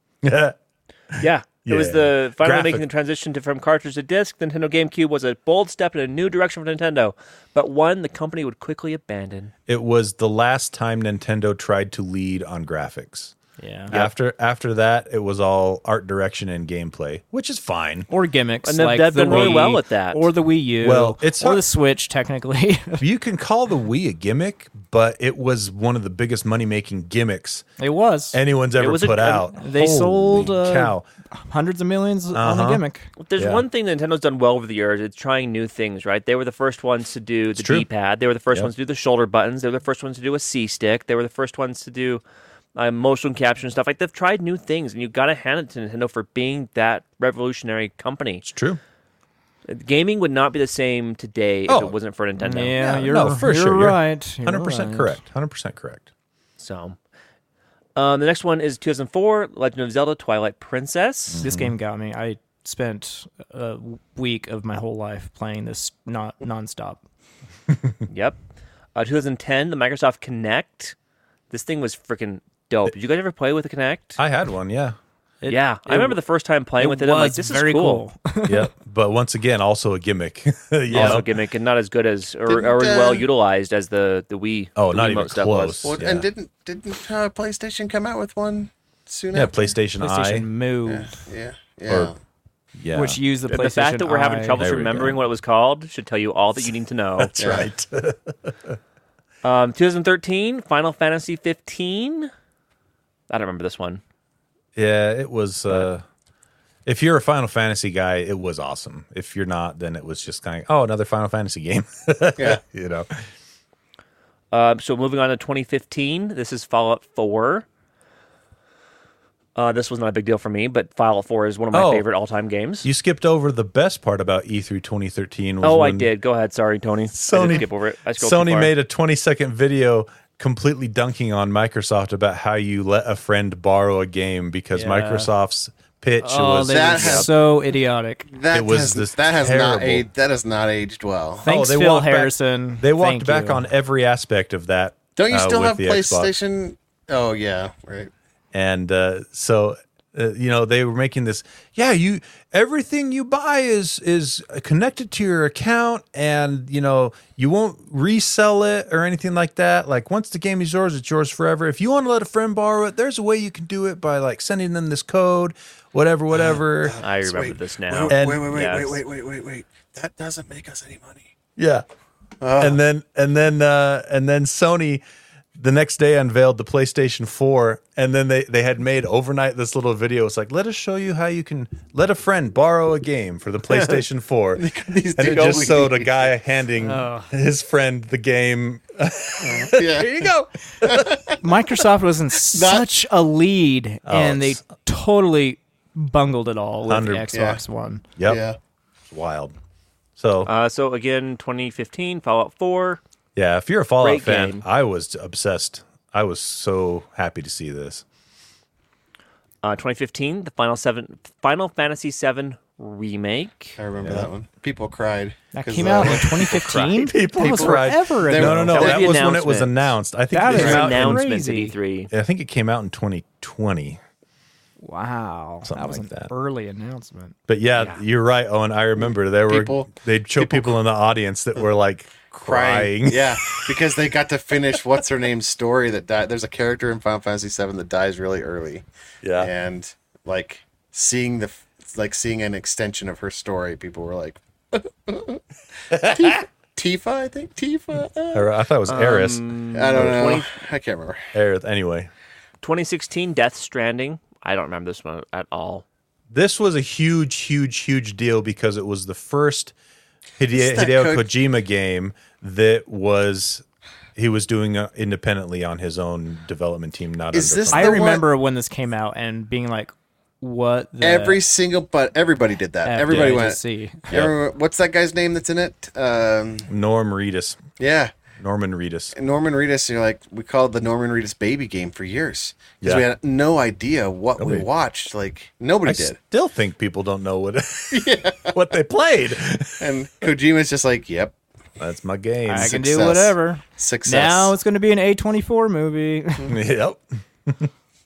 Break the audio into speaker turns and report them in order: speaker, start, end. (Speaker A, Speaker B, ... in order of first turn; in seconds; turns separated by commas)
Speaker A: 0.2-0.6, Speaker A: 1.1-2.8, Speaker B: 1.2-9.5, Speaker A: 9.7-13.3, Speaker C: 13.6-13.9, Speaker A: 13.9-18.1, Speaker C: 18.1-23.0, Speaker B: 18.6-20.3, Speaker A: 19.3-19.6, Speaker A: 20.8-21.6, Speaker A: 23.0-27.6, Speaker C: 27.8-28.4, Speaker A: 28.3-31.1, Speaker B: 28.8-29.5, Speaker C: 29.6-33.1, Speaker A: 32.3-32.8, Speaker B: 33.2-42.2, Speaker A: 33.4-33.6, Speaker A: 37.6-37.9, Speaker B: 42.8-48.4, Speaker A: 48.4-48.8, Speaker B: 49.7-53.1, Speaker A: 51.7-52.0, Speaker C: 52.4-55.2, Speaker A: 52.8-56.1, Speaker B: 56.6-57.0, Speaker B: 58.0-61.4, Speaker A: 61.3-61.7, Speaker C: 61.4-67.0, Speaker B: 68.1-68.4, Speaker B: 68.9-70.9, Speaker B: 71.5-74.2, Speaker A: 74.2-75.0, Speaker C: 75.4-76.2, Speaker B: 75.5-78.0, Speaker C: 76.8-78.7, Speaker A: 78.5-81.3, Speaker B: 80.9-85.9, Speaker C: 80.9-81.2, Speaker D: 82.5-83.3, Speaker A: 84.8-86.3, Speaker D: 85.8-89.7, Speaker A: 89.3-90.5, Speaker C: 90.0-91.1, Speaker D: 90.8-92.2, Speaker A: 92.8-93.2, Speaker C: 92.9-94.6, Speaker B: 93.5-97.4, Speaker A: 94.6-95.2, Speaker A: 97.2-98.8, Speaker D: 97.4-97.7, Speaker B: 99.4-102.3, Speaker B: 103.3-104.0, Speaker A: 104.8-106.0, Speaker A: 106.8-113.1, Speaker B: 114.5-117.7, Speaker B: 119.5-122.8, Speaker A: 121.7-122.0, Speaker A: 122.8-126.1, Speaker B: 125.6-128.7, Speaker A: 127.1-137.2, Speaker C: 134.7-135.3, Speaker C: 136.2-138.3, Speaker D: 136.7-137.3, Speaker D: 138.3-141.5, Speaker A: 138.5-140.1, Speaker C: 141.4-143.7, Speaker A: 141.4-146.3, Speaker D: 145.2-148.1, Speaker A: 148.5-167.0, Speaker D: 166.8-171.3, Speaker B: 167.0-169.0, Speaker A: 168.1-168.5, Speaker A: 171.6-171.8, Speaker D: 172.4-172.8, Speaker A: 172.6-175.0, Speaker A: 175.6-191.2, Speaker D: 184.6-186.2, Speaker C: 186.8-187.3, Speaker D: 189.4-190.2, Speaker D: 190.8-191.4, Speaker C: 191.4-198.0, Speaker D: 192.5-192.9, Speaker A: 194.1-194.6, Speaker A: 196.9-197.4, Speaker D: 197.3-197.6, Speaker A: 198.2-198.4, Speaker D: 198.2-198.6, Speaker A: 199.1-199.5, Speaker A: 200.2-200.5, Speaker B: 200.4-203.0, Speaker A: 203.3-208.0, Speaker B: 204.0-204.6, Speaker B: 209.6-213.8, Speaker D: 213.8-216.8, Speaker A: 214.0-214.3, Speaker C: 215.5-218.8, Speaker A: 215.9-221.2, Speaker D: 217.3-219.1, Speaker B: 218.7-219.9, Speaker C: 220.3-221.7, Speaker B: 220.5-222.1, Speaker D: 220.5-220.8, Speaker A: 222.1-224.0, Speaker C: 224.8-227.3, Speaker A: 225.6-226.3, Speaker A: 227.5-233.8, Speaker B: 227.8-228.0, Speaker D: 229.5-230.7, Speaker D: 232.4-238.8, Speaker A: 239.2-239.5, Speaker D: 239.4-248.5, Speaker A: 245.9-246.4, Speaker A: 248.3-250.4, Speaker B: 248.9-250.5, Speaker D: 249.7-251.2, Speaker A: 251.3-252.1, Speaker B: 252.6-255.8, Speaker A: 256.3-259.7, Speaker A: 260.4-263.6, Speaker D: 260.5-261.2, Speaker A: 264.1-268.0, Speaker D: 267.3-268.2, Speaker C: 267.7-271.4, Speaker D: 271.0-276.7, Speaker C: 272.8-274.1, Speaker A: 273.1-273.4, Speaker A: 276.7-277.6, Speaker D: 277.8-278.1, Speaker A: 278.4-279.1, Speaker D: 279.1-286.2, Speaker A: 284.4-284.7, Speaker A: 285.8-289.9, Speaker D: 287.9-288.5, Speaker D: 289.8-291.3, Speaker A: 291.8-292.9, Speaker C: 292.4-296.6, Speaker D: 292.6-294.5, Speaker A: 296.5-297.7